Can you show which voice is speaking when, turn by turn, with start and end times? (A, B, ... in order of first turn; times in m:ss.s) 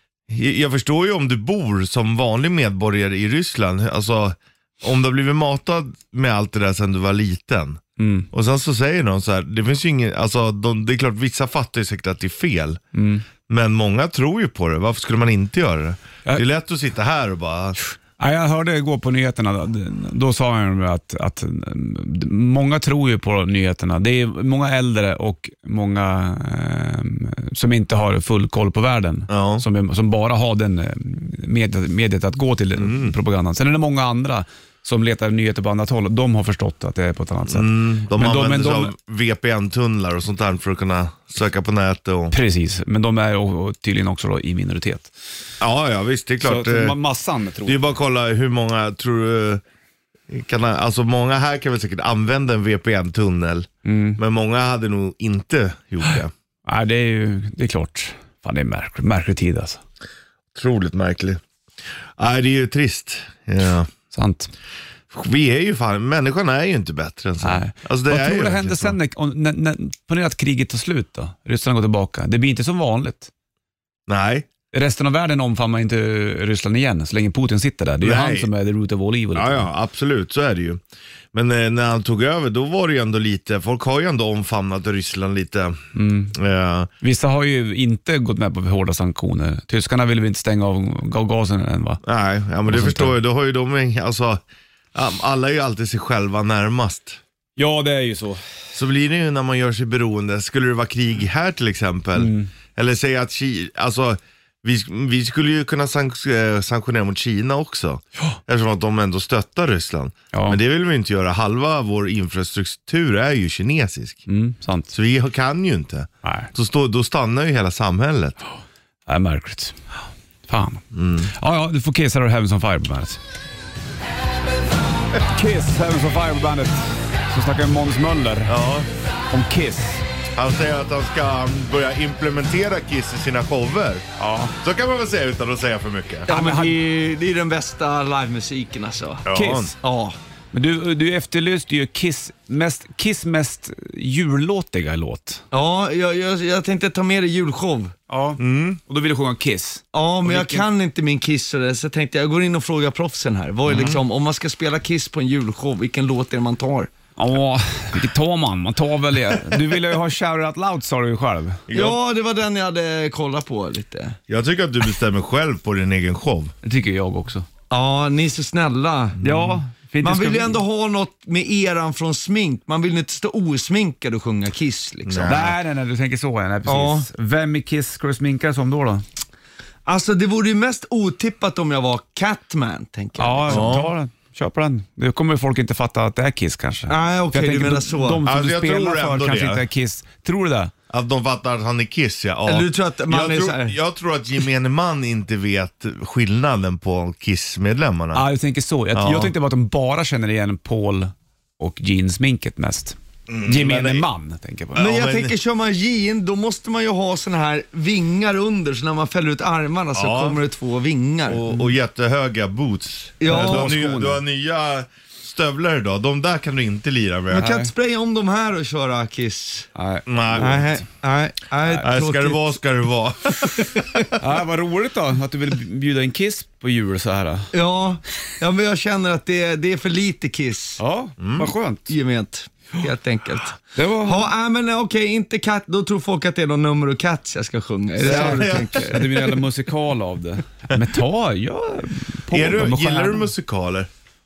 0:00.3-0:07.8 A
0:08.0-0:08.3 B
0:08.3-0:12.8 A
0:12.9-0:13.2 B
0:13.5-0:17.8 A
0:18.2-0:38.9 B
0:29.3-0:29.6 A
0:32.8-0:33.1 A
0:37.5-0:42.3 A
0:42.3-0:45.1 B
0:45.6-0:47.0 A
0:46.4-0:48.0 B
0:47.6-0:49.6 A
0:50.3-0:56.3 A
0:53.8-0:54.2 B
0:56.6-0:59.8 B
1:00.5-1:01.4 A
1:02.2-1:03.9 A
1:04.1-1:04.5 B
1:05.1-1:09.0 A
1:07.4-1:13.3 B
1:14.1-1:14.5 A
1:14.7-1:19.7 B
1:18.0-1:18.5 A
1:19.3-1:25.8 A
1:25.9-1:26.4 B
1:26.3-1:26.9 A
1:27.0-1:32.0 B
1:32.0-1:34.4 A
1:32.7-1:33.2 B
1:34.9-1:37.2 A
1:37.6-1:38.4 B
1:38.7-1:54.2 A
1:42.2-1:42.5 B
1:50.3-1:50.6 B
1:54.3-1:54.9 B
1:54.9-1:58.4 A
1:56.2-1:56.5 B
1:59.1-1:59.8 B
2:00.5-2:03.2 B
2:00.9-2:01.3 A
2:05.2-2:08.6 B
2:08.5-2:08.9 A
2:09.3-2:10.0 B
2:10.3-2:14.0 A
2:14.2-2:14.5 B
2:14.6-2:16.3 A
2:16.3-2:19.2 C
2:16.3-2:16.7 B
2:19.2-2:19.7 A
2:19.3-2:19.7 B
2:19.8-2:20.2 C
2:20.5-2:25.4 B
2:25.5-2:27.9 C
2:28.1-2:30.7 B
2:28.4-2:28.8 A
2:29.9-2:36.9 C
2:33.7-2:34.0 A
2:37.2-2:41.6 B
2:41.7-2:42.0 A
2:41.7-2:44.2 C
2:44.3-2:46.5 A
2:46.6-2:47.5 B
2:47.7-2:49.2 C
2:49.2-2:50.6 B
2:49.3-2:49.6 A
2:50.0-2:55.4 C
2:55.1-2:55.5 A
2:55.2-2:59.0 B
2:56.7-2:57.1 C
2:59.8-3:03.7 C
3:03.2-3:10.7 B
3:03.5-3:03.9 A
3:06.9-3:08.2 C
3:08.2-3:09.6 A
3:10.9-3:18.2 A
3:12.4-3:13.7 C
3:18.1-3:24.8 B
3:18.9-3:19.3 A
3:23.3-3:24.1 A
3:24.7-3:25.3 A
3:24.8-3:31.5 C
3:29.9-3:30.4 A
3:31.3-3:37.5 A
3:33.2-3:33.7 C
3:33.2-3:34.2 B
3:37.3-3:39.7 C
3:37.3-3:37.7 B
3:39.7-3:40.8 B
3:40.1-3:40.6 A
3:40.4-3:42.6 C
3:41.8-3:44.0 A
3:43.6-3:44.1 C
3:44.2-3:47.5 B
3:47.5-3:50.8 C
3:50.8-3:51.9 B
3:51.2-3:51.5 A
3:51.9-3:59.4 C
3:53.7-3:54.3 B
3:58.0-3:58.9 A
3:58.0-4:03.3 B
4:02.3-4:03.9 A